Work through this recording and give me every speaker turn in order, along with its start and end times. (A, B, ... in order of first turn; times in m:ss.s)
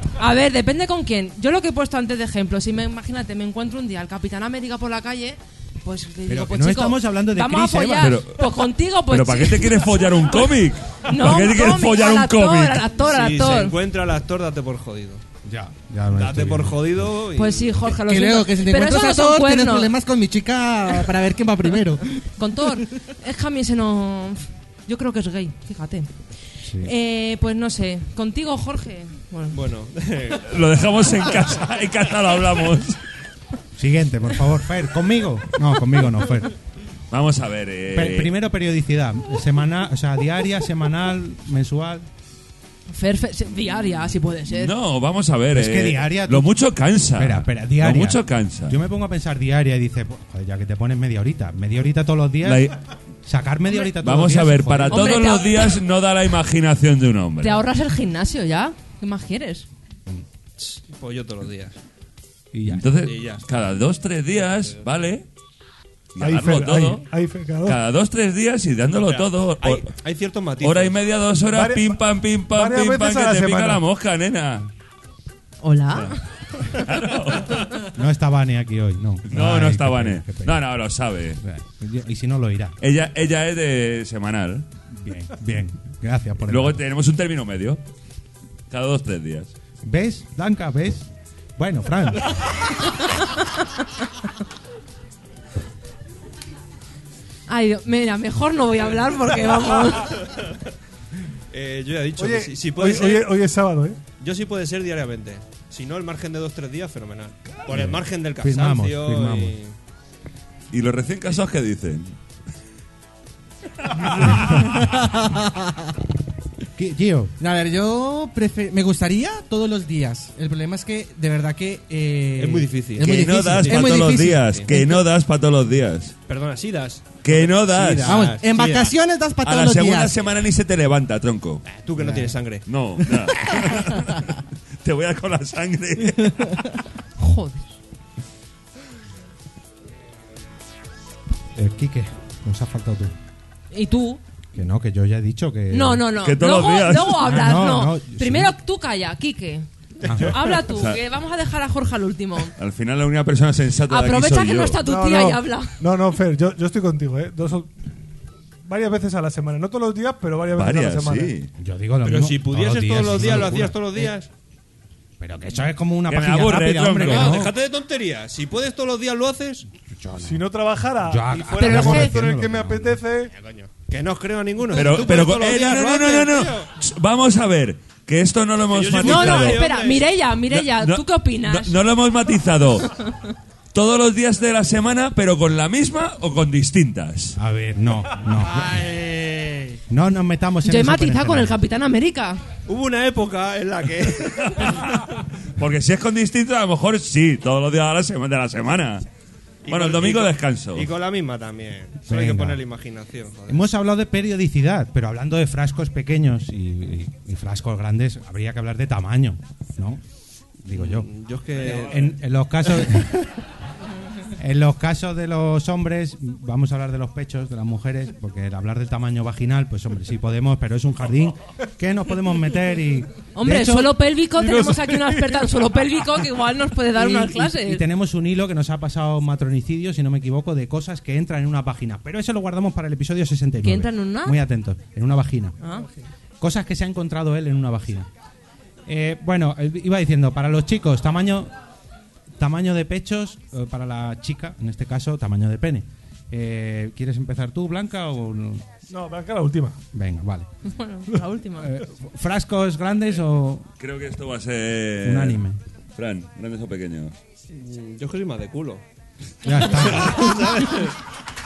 0:00.1-0:09.9 A
0:06.3-0:08.2 B
0:08.0-0:12.9 C
0:11.0-0:13.8 A
0:13.0-0:15.2 D
0:15.4-0:17.1 B
0:16.1-0:17.8 D
0:17.4-0:19.9 A
0:18.0-0:22.0 E
0:22.4-0:26.1 A
0:26.6-0:26.9 B
0:26.8-0:29.6 A
0:29.5-0:30.7 D
0:30.4-0:33.0 C
0:33.8-0:36.5 B
0:37.1-0:38.3 C
0:37.9-0:42.1 B
0:42.9-0:44.7 A
0:44.5-0:48.8 C
0:45.5-0:46.5 B
0:47.1-0:52.7 B
0:52.4-0:52.8 C
0:53.2-0:55.2 B
0:53.8-0:57.6 C
0:54.9-0:55.7 A
0:57.4-0:59.7 A
1:00.6-1:01.8 D
1:02.5-1:02.9 B
1:02.7-1:05.3 C
1:03.0-1:03.4 D
1:06.1-1:07.1 C
1:06.2-1:07.8 F
1:07.6-1:09.9 C
1:09.0-1:11.0 D
1:10.6-1:14.7 C
1:11.5-1:13.8 F
1:15.6-1:16.8 A
1:16.7-1:17.8 C
1:17.9-1:20.6 B
1:19.3-1:21.4 C
1:21.4-1:22.8 B
1:22.8-1:24.6 C
1:24.9-1:26.8 B
1:26.5-1:27.8 C
1:28.7-1:29.5 C
1:29.8-1:32.2 B
1:32.9-1:33.8 A
1:37.5-1:40.3 A
1:41.5-1:43.3 D
1:42.2-1:44.0 F
1:44.2-1:49.8 D
1:47.7-1:49.6 B
1:50.7-1:52.1 C
1:53.9-1:54.6 C
1:54.6-1:56.0 E
1:56.8-1:57.3 B
1:57.4-2:05.0 E
2:02.4-2:04.7 D
2:03.0-2:06.1 C
2:06.3-2:09.0 D
2:07.2-2:08.2 C
2:07.8-2:10.1 E
2:09.4-2:11.6 C
2:11.7-2:12.7 D
2:12.0-2:12.3 B
2:12.7-2:16.7 C
2:17.2-2:17.7 A
2:21.6-2:23.1 B
2:23.7-2:24.2 A
2:24.6-2:26.0 B
2:25.7-2:32.5 A
2:26.2-2:27.3 C
2:27.2-2:28.5 B
2:30.0-2:30.4 B
2:30.6-2:31.0 C
2:32.6-2:34.8 C
2:33.9-2:35.8 A
2:34.8-2:37.7 F
2:38.6-2:41.4 F
2:40.6-2:41.5 C
2:41.6-2:44.1 B
2:42.0-2:44.3 D
2:45.2-2:47.5 B
2:46.1-2:47.5 C
2:47.0-2:49.7 D
2:49.9-2:50.4 B
2:50.2-2:53.3 F
2:51.0-2:53.0 B
2:51.6-2:52.2 A
2:53.3-2:56.7 D
2:54.7-2:59.7 C
2:58.7-3:00.1 D
2:59.0-3:01.8 A
3:00.5-3:03.0 C
3:02.9-3:03.2 A
3:03.7-3:07.4 C
3:07.4-3:08.8 B
3:08.6-3:09.4 E
3:08.7-3:09.5 D
3:09.9-3:11.6 B
3:10.6-3:12.4 A
3:12.7-3:14.8 D
3:14.4-3:19.0 C
3:19.6-3:23.6 D
3:19.7-3:20.9 C
3:22.1-3:22.6 B
3:23.5-3:30.0 B
3:30.6-3:31.1 B
3:30.7-3:32.1 D
3:31.7-3:33.3 B
3:34.4-3:43.9 B
3:43.4-3:47.8 A
3:44.4-3:45.5 F
3:47.0-3:55.6 B
3:53.6-3:54.4 A
3:56.4-3:58.1 B
3:58.9-4:01.5 B
4:02.4-4:08.6 B
4:08.9-4:09.8 F
4:09.9-4:10.5 B
4:10.6-4:11.7 A
4:11.6-4:13.7 B
4:13.8-4:15.4 C
4:15.0-4:15.6 B
4:16.0-4:17.1 C
4:17.5-4:18.8 D
4:19.4-4:20.5 B
4:19.7-4:21.0 D